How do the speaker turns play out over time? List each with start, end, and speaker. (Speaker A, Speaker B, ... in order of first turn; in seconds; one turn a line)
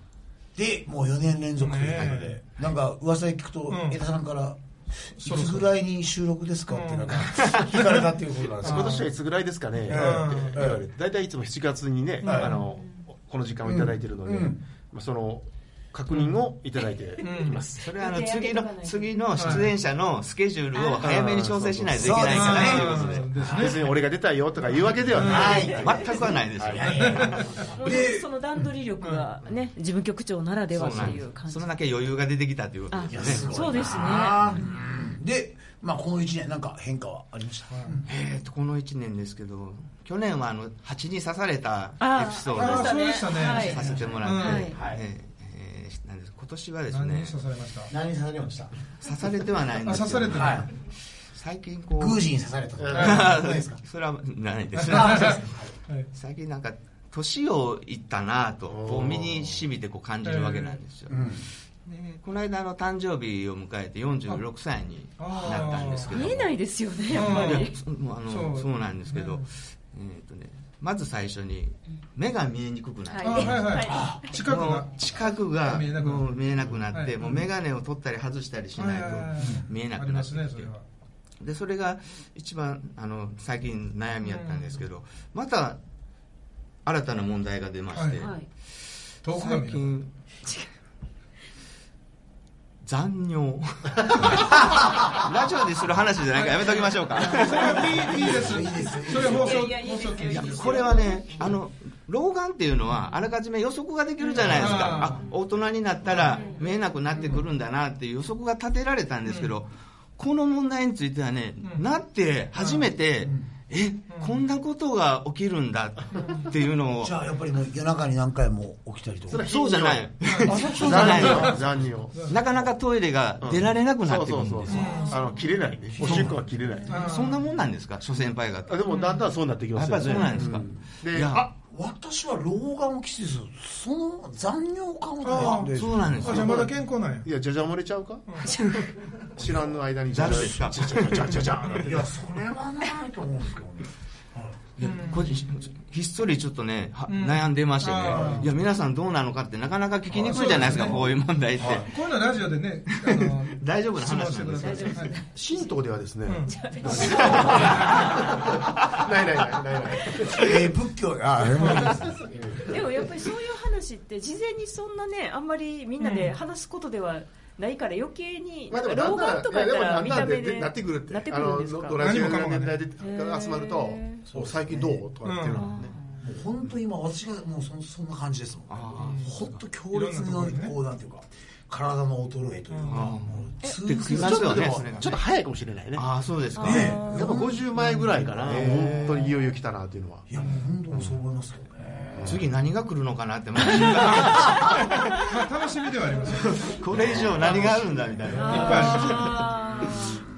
Speaker A: 0.5-9.0
Speaker B: 1.6-2.4
Speaker B: 3.7-4.0
Speaker B: 5.2-5.7
Speaker B: 6.7-8.0
Speaker B: 8.6-9.1
Speaker C: 8.6-17.8
Speaker A: 9.9-10.8
Speaker B: 9.9-10.7
Speaker B: 12.2-12.5
Speaker A: 12.2-12.5
Speaker A: 13.6-14.6
Speaker B: 16.1-16.4
Speaker D: 17.2-19.6
Speaker B: 17.2-17.6
Speaker E: 17.8-23.2
Speaker B: 19.3-19.7
Speaker D: 20.7-21.1
Speaker C: 21.0-27.0
Speaker A: 22.0-23.8
Speaker B: 22.2-23.9
Speaker B: 25.2-25.7
Speaker A: 25.2-28.3
Speaker E: 25.3-27.5
Speaker B: 26.8-27.6
Speaker D: 27.7-31.7
Speaker E: 30.7-33.9
Speaker D: 32.9-34.7
Speaker A: 33.1-38.0
Speaker B: 37.7-38.0
Speaker E: 38.0-47.4
Speaker D: 42.0-44.8
Speaker B: 42.5-44.7
Speaker A: 44.7-45.0
Speaker B: 46.9-47.9
Speaker A: 47.9-48.7
Speaker E: 49.0-52.2
Speaker B: 49.8-50.7
Speaker A: 50.3-50.7
Speaker A: 52.0-53.8
Speaker C: 52.8-53.4
Speaker E: 52.9-55.6
Speaker B: 54.8-56.1
Speaker A: 54.9-55.7
Speaker E: 56.1-66.5
Speaker C: 58.7-59.7
Speaker B: 60.2-60.8
Speaker A: 61.1-61.5
Speaker B: 65.2-66.1
Speaker D: 66.1-67.7
Speaker E: 67.1-80.7
Speaker B: 67.1-67.7
Speaker B: 68.3-69.5
Speaker D: 73.1-74.2
Speaker B: 73.2-75.0
Speaker A: 73.8-74.3
Speaker B: 75.6-77.5
Speaker B: 78.8-80.8
Speaker E: 81.4-85.8
Speaker B: 84.2-84.8
Speaker E: 86.8-88.5
Speaker B: 87.9-88.2
Speaker D: 88.2-88.5
Speaker B: 89.2-90.0
Speaker E: 89.2-90.1
Speaker E: 92.8-98.3
Speaker A: 94.7-95.1
Speaker D: 96.3-97.7
Speaker B: 97.2-101.0
Speaker A: 98.0-99.8
Speaker D: 99.1-101.5
Speaker E: 100.3-117.1
Speaker B: 104.4-105.2
Speaker D: 106.4-106.6
Speaker B: 109.3-109.5
Speaker B: 112.5-112.9
Speaker B: 114.1-114.4
Speaker A: 117.0-119.4
Speaker C: 119.3-122.3
Speaker E: 119.4-121.6
Speaker B: 120.2-121.5
Speaker A: 120.5-121.2
Speaker E: 122.3-125.0
Speaker C: 123.4-127.0
Speaker B: 124.7-125.2
Speaker D: 124.7-125.4
Speaker A: 126.0-126.4
Speaker E: 126.0-126.3
Speaker E: 126.9-128.8
Speaker B: 126.9-127.4
Speaker C: 128.7-131.4
Speaker B: 128.9-129.2
Speaker E: 129.7-131.5
Speaker A: 130.2-130.8
Speaker A: 131.3-136.5
Speaker B: 135.2-137.3
Speaker E: 135.7-136.6
Speaker C: 136.3-136.7
Speaker C: 137.2-138.4
Speaker B: 138.3-138.6
Speaker C: 139.3-142.1
Speaker E: 140.1-141.8
Speaker A: 141.6-144.8
Speaker B: 144.8-145.4
Speaker E: 144.8-152.0
Speaker B: 147.1-148.5
Speaker B: 150.2-151.0
Speaker B: 151.7-155.2
Speaker E: 152.9-155.1
Speaker D: 154.6-155.7
Speaker C: 155.3-160.5
Speaker B: 156.3-158.0
Speaker D: 156.4-158.3
Speaker E: 157.0-157.8
Speaker A: 160.2-162.3
Speaker B: 161.6-161.9
Speaker C: 161.8-162.8
Speaker D: 162.7-172.1
Speaker B: 166.0-166.3
Speaker C: 168.7-176.0
Speaker B: 172.0-172.8
Speaker D: 173.0-174.2
Speaker A: 174.3-175.1
Speaker B: 175.2-175.8
Speaker D: 175.5-175.9
Speaker A: 176.2-184.9
Speaker E: 178.7-179.6
Speaker B: 178.9-179.3
Speaker B: 179.9-180.8
Speaker B: 182.7-183.4
Speaker E: 182.9-185.2
Speaker D: 183.6-183.9
Speaker C: 184.1-186.0
Speaker E: 185.9-187.0
Speaker D: 186.6-187.4
Speaker A: 186.6-189.3
Speaker C: 186.7-190.3
Speaker E: 188.4-189.3
Speaker A: 190.3-192.4
Speaker B: 190.3-190.7
Speaker E: 192.2-195.1
Speaker B: 193.7-196.8
Speaker E: 196.5-199.9
Speaker A: 196.9-197.8
Speaker D: 198.3-200.2
Speaker B: 198.4-199.4